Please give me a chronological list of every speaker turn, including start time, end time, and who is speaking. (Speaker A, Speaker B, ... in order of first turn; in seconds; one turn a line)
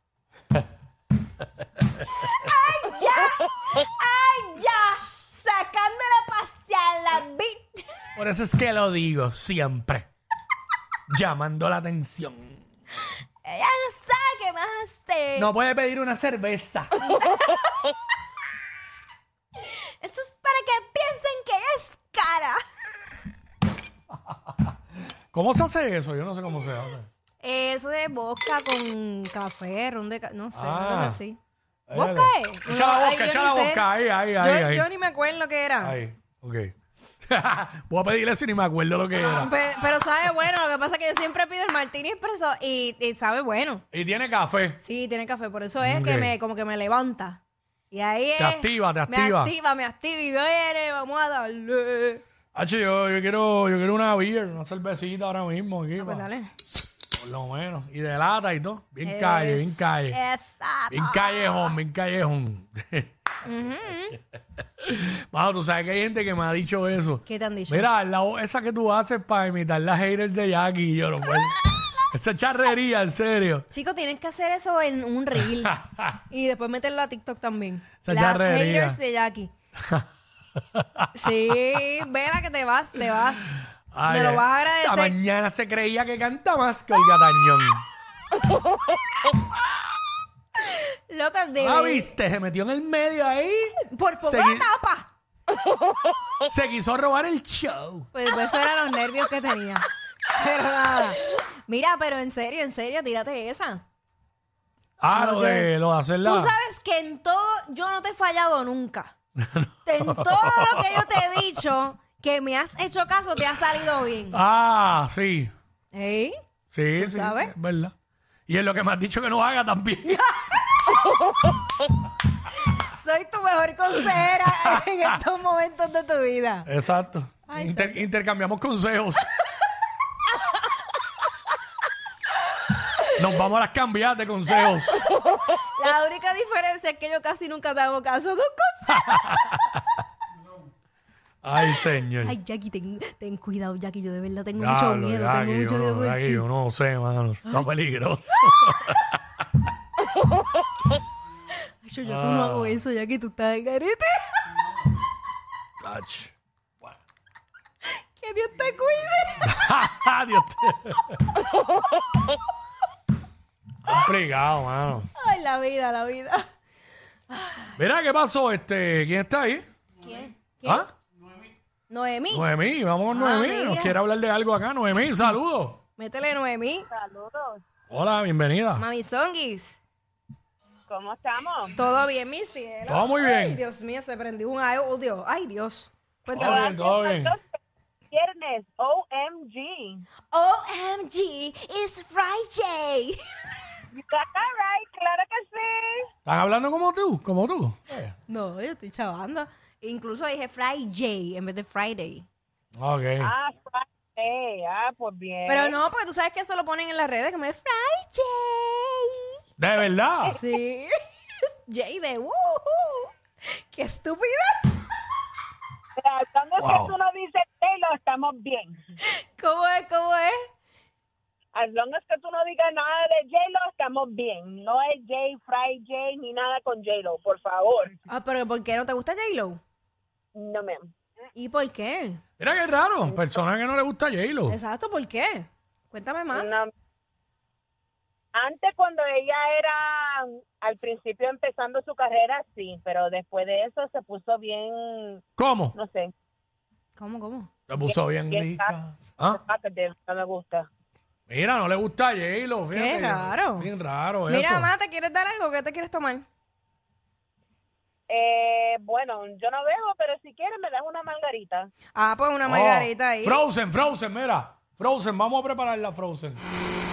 Speaker A: 2.1-8.1
Speaker B: 8.2-10.1
Speaker B: 11.1-12.6
Speaker A: 13.4-15.5
Speaker B: 15.4-17.2
Speaker A: 17.0-17.9
Speaker A: 19.6-22.6
Speaker B: 25.3-27.1
Speaker A: 27.4-31.4
Speaker B: 30.5-31.2
Speaker B: 31.9-34.9
Speaker A: 31.9-36.0
Speaker B: 35.8-39.5
Speaker A: 39.2-43.8
Speaker B: 43.9-44.8
Speaker A: 44.8-52.2
Speaker B: 45.8-46.3
Speaker B: 48.4-49.5
Speaker B: 52.5-56.3
Speaker A: 56.0-56.5
Speaker B: 57.1-60.2
Speaker A: 59.0-61.7
Speaker B: 60.9-63.1
Speaker A: 63.5-64.2
Speaker B: 64.8-73.7
Speaker A: 67.2-67.9
Speaker A: 73.7-79.5
Speaker B: 75.5-76.2
Speaker B: 78.0-79.0
Speaker B: 80.6-81.3
Speaker A: 81.2-85.2
Speaker B: 83.9-87.8
Speaker A: 90.7-92.1
Speaker B: 91.6-94.7
Speaker A: 93.8-95.1
Speaker B: 96.5-98.1
Speaker A: 98.1-103.8
Speaker B: 105.0-106.5
Speaker A: 105.1-105.7
Speaker A: 106.2-109.1
Speaker B: 109.4-111.4
Speaker A: 109.8-114.4
Speaker B: 114.3-115.5
Speaker A: 115.9-116.3
Speaker B: 116.7-117.9
Speaker A: 117.0-117.5
Speaker B: 118.5-120.6
Speaker A: 122.7-126.7
Speaker B: 126.7-129.3
Speaker A: 127.5-128.1
Speaker B: 133.1-135.1
Speaker A: 135.1-139.3
Speaker B: 138.9-139.8
Speaker B: 141.4-142.4
Speaker A: 141.7-146.4
Speaker B: 144.6-149.2
Speaker A: 151.8-154.4
Speaker B: 152.0-152.8
Speaker B: 155.8-156.3
Speaker A: 158.2-159.5
Speaker B: 159.4-161.2
Speaker B: 163.8-165.1
Speaker A: 165.2-166.4
Speaker A: 167.3-167.7
Speaker B: 167.8-169.7
Speaker A: 170.0-170.9
Speaker A: 171.9-172.5
Speaker B: 172.3-175.8
Speaker A: 173.1-174.0
Speaker A: 176.0-176.9
Speaker C: 176.9-177.6
Speaker B: 177.9-178.8
Speaker A: 178.8-179.8
Speaker C: 180.9-181.8
Speaker A: 181.8-186.7
Speaker B: 182.9-183.6
Speaker B: 186.3-187.3
Speaker C: 186.3-187.4
Speaker C: 188.1-190.1
Speaker A: 190.3-193.2
Speaker C: 193.9-196.1
Speaker B: 196.3-198.1
Speaker A: 198.3-202.3
Speaker B: 202.8-203.3
Speaker C: 203.2-205.8
Speaker A: 205.5-209.4
Speaker B: 209.6-210.4
Speaker A: 210.3-210.9
Speaker A: 211.7-214.8
Speaker C: 216.0-218.8
Speaker B: 216.6-216.9
Speaker A: 219.0-220.4
Speaker C: 221.5-227.9
Speaker A: 228.1-229.6
Speaker C: 230.3-230.9
Speaker A: 231.3-232.2
Speaker B: 232.4-234.6
Speaker A: 234.5-236.6
Speaker C: 236.3-236.7
Speaker C: 238.3-245.2
Speaker B: 245.4-245.8
Speaker C: 245.8-246.1
Speaker A: 247.0-247.5
Speaker B: 247.7-249.4
Speaker C: 248.3-250.7
Speaker B: 251.3-254.7
Speaker A: 252.7-253.7
Speaker A: 254.3-256.3
Speaker C: 258.1-261.7
Speaker A: 261.9-263.4
Speaker B: 262.4-266.4